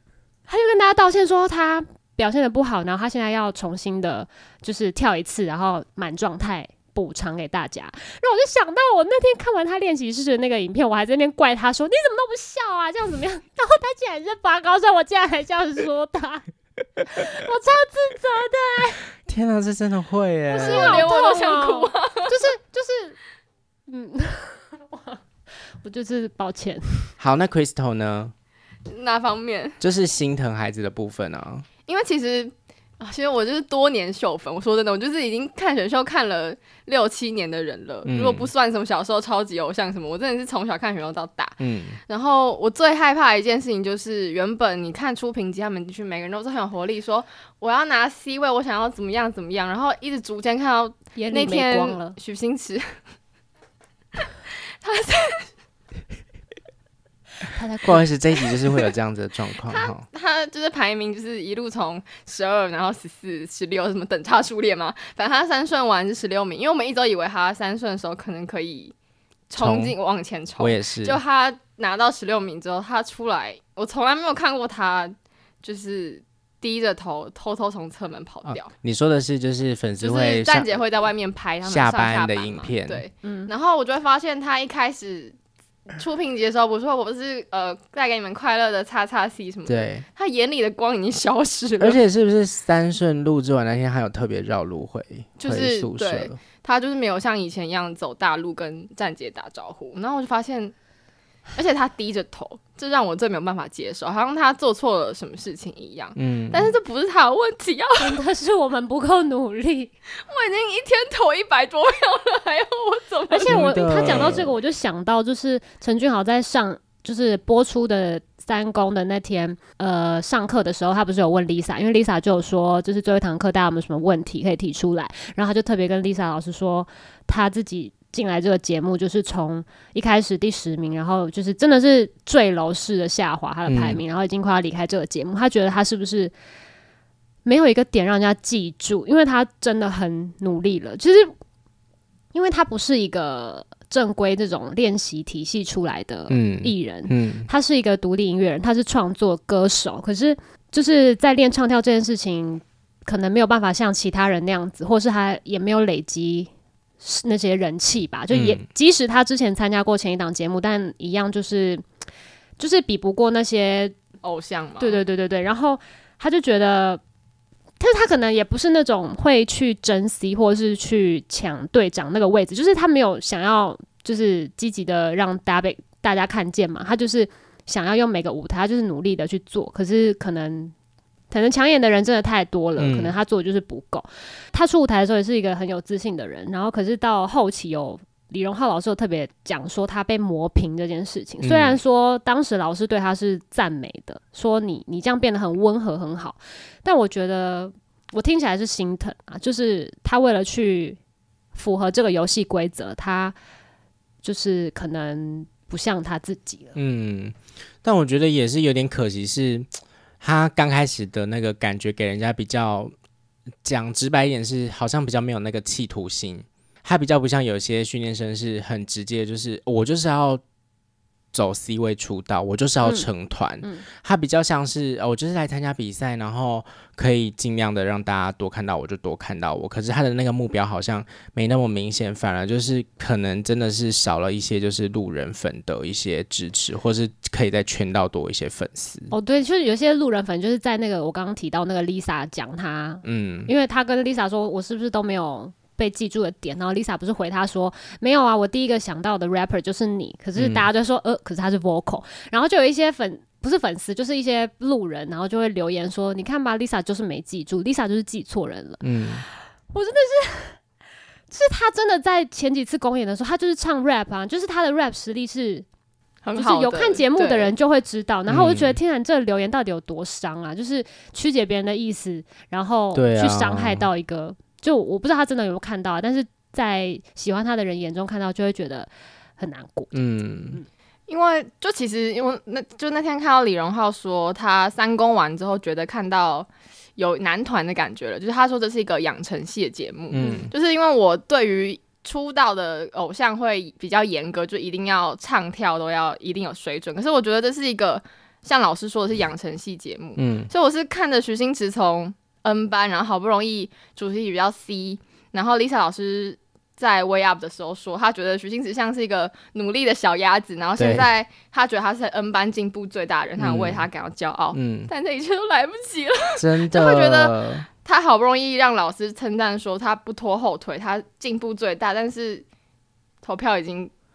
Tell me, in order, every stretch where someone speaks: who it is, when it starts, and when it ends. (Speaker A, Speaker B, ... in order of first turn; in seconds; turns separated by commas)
Speaker A: 0.5-16.5, Speaker A: 17.0-19.0, Speaker B: 19.2-21.0, Speaker A: 20.5-23.2, Speaker C: 20.6-22.4, Speaker A: 23.9-25.2, Speaker A: 25.8-27.1, Speaker B: 27.2-28.3, Speaker C: 28.9-29.8, Speaker B: 29.8-31.7, Speaker C: 31.9-52.9, Speaker B: 38.1-38.5, Speaker B: 41.6-42.0, Speaker A: 51.1-52.2, Speaker C: 54.8-55.5, Speaker A: 57.5-58.8, Speaker B: 57.8-60.0, Speaker C: 59.6-68.9, Speaker C: 69.5-78.7, Speaker B: 69.6-70.0, Speaker B: 70.6-71.2, Speaker B: 78.5-80.8, Speaker C: 80.0-85.4, Speaker B: 81.6-83.0, Speaker A: 83.2-83.5, Speaker C: 86.0-92.0, Speaker B: 89.7-90.0, Speaker B: 91.8-96.4, Speaker C: 95.4-100.7, Speaker C: 101.6-108.2, Speaker B: 106.2-106.7, Speaker A: 108.0-109.9, Speaker C: 110.3-113.7, Speaker A: 113.3-136.3, Speaker B: 113.5-114.5, Speaker B: 133.7-134.0, Speaker A: 137.4-141.3, Speaker A: 142.3-161.8, Speaker B: 146.3-147.5, Speaker B: 158.3-158.6, Speaker A: 162.6-163.9, Speaker C: 164.2-165.0, Speaker A: 164.8-167.0, Speaker A: 167.8-180.7, Speaker A: 181.3-201.0, Speaker B: 182.8-183.2, Speaker B: 191.4-191.8, Speaker A: 201.5-203.4, Speaker A: 204.2-206.8, Speaker B: 206.8-209.7, Speaker B: 210.2-212.9, Speaker B: 213.6-220.4, Speaker B: 221.3-239.1, Speaker A: 222.8-223.1, Speaker A: 239.1-260.6, Speaker B: 243.0-243.5, Speaker B: 250.3-250.7, Speaker B: 258.8-259.2, Speaker A: 261.3-265.7, Speaker C: 266.2-267.5, Speaker A: 266.4-280.7, Speaker B: 268.3-268.8, Speaker B: 272.9-273.9, Speaker B: 279.9-280.6, Speaker C: 281.1-322.4, Speaker B: 290.1-290.5, Speaker A: 290.2-290.5, Speaker B: 300.2-300.5, Speaker B: 310.8-311.1, Speaker B: 313.4-313.9, Speaker B: 314.5-314.9, Speaker B: 316.4-317.7, Speaker C: 323.2-323.9